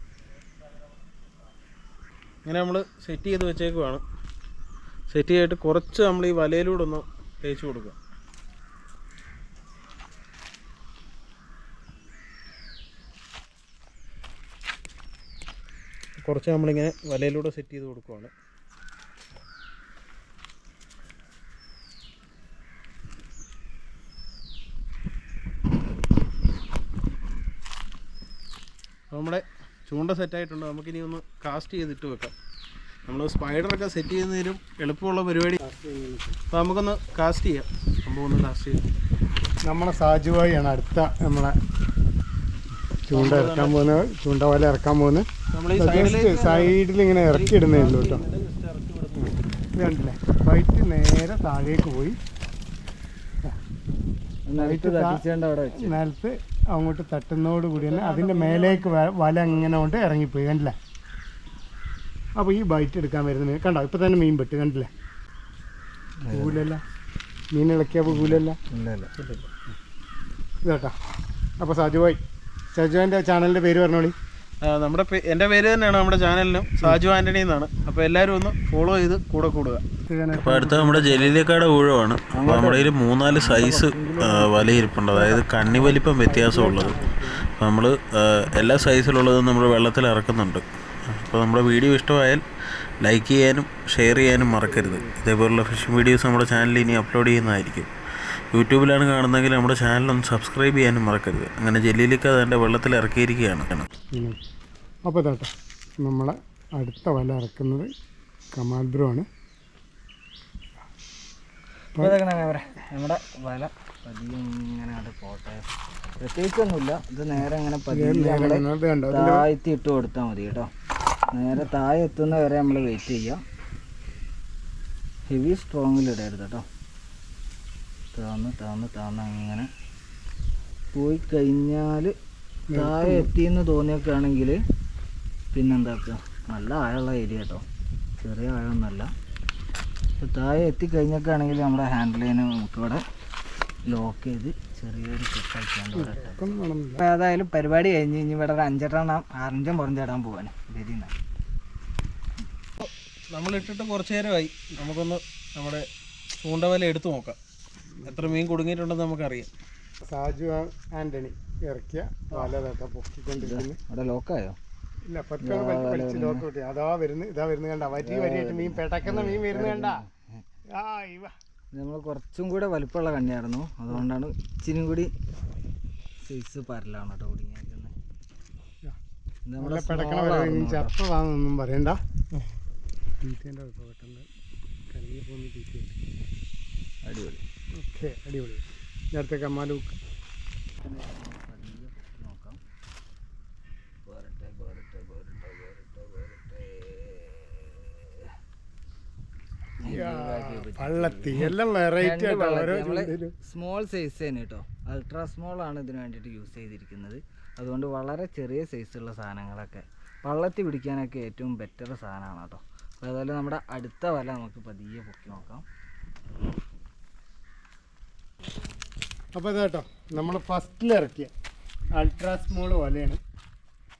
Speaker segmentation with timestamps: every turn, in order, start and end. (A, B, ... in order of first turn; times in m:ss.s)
0:02.4-0:04.0 A
0:05.1-0:08.0 A
0:16.2-0:18.3 A
0:29.1-0:32.3 A
0:33.1-0:35.6 A
0:35.6-0:36.4 B
0:36.5-0:38.9 A
0:39.6-0:41.6 B
0:43.0-0:48.2 B
0:43.1-0:43.9 A
0:45.5-0:49.4 A
0:49.8-0:52.2 B
0:54.5-0:56.0 C
0:54.6-1:00.8 B
0:57.7-0:59.9 A
1:02.4-1:04.9 B
1:06.2-1:06.6 C
1:06.3-1:06.8 B
1:07.5-1:08.6 B
1:08.1-1:09.1 C
1:09.2-1:09.5 A
1:10.6-1:10.9 B
1:11.6-1:12.2 B
1:12.7-1:14.1 B
1:14.6-1:19.8 A
1:20.1-1:21.4 B
1:20.4-1:27.0 A
1:20.6-1:21.0 D
1:22.3-1:26.0 C
1:23.6-1:23.9 D
1:25.2-1:26.5 D
1:26.2-1:27.4 B
1:27.6-1:27.8 A
1:28.5-1:30.5 D
1:28.6-1:29.9 A
1:31.2-1:32.4 D
1:33.0-1:37.8 D
1:33.9-1:37.2 A
1:34.3-1:35.1 C
1:38.5-1:43.2 D
1:40.1-1:40.8 A
1:41.4-1:43.8 A
1:45.0-1:47.9 B
1:48.5-1:49.2 B
1:52.0-1:55.7 C
1:56.2-2:00.7 C
1:57.3-1:59.5 B
2:01.3-2:03.4 C
2:05.3-2:06.6 C
2:08.1-2:09.7 C
2:10.9-2:12.1 C
2:12.7-2:13.3 B
2:12.7-2:14.6 C
2:15.5-2:17.6 C
2:18.2-2:19.1 C
2:20.2-2:23.0 C
2:23.8-2:26.4 C
2:25.9-2:27.0 B
2:27.0-2:31.1 C
2:32.8-2:35.8 A
2:36.4-2:37.4 A
2:38.0-2:38.3 B
2:38.0-2:39.5 A
2:40.1-2:43.8 B
2:43.4-2:44.6 C
2:45.0-2:50.0 B
2:45.4-2:46.4 C
2:48.0-2:50.0 C
2:50.7-2:51.3 B
2:51.7-2:55.1 C
2:56.2-2:57.9 C
2:59.5-3:00.9 C
2:59.6-3:02.0 B
3:03.2-3:04.3 B
3:04.9-3:06.0 B
3:07.0-3:07.4 C
3:07.8-3:09.9 B
3:10.8-3:12.6 C
3:14.0-3:18.3 C
3:19.8-3:35.6 C
3:19.8-3:23.3 B
3:39.3-3:41.3 B
3:42.0-3:43.2 B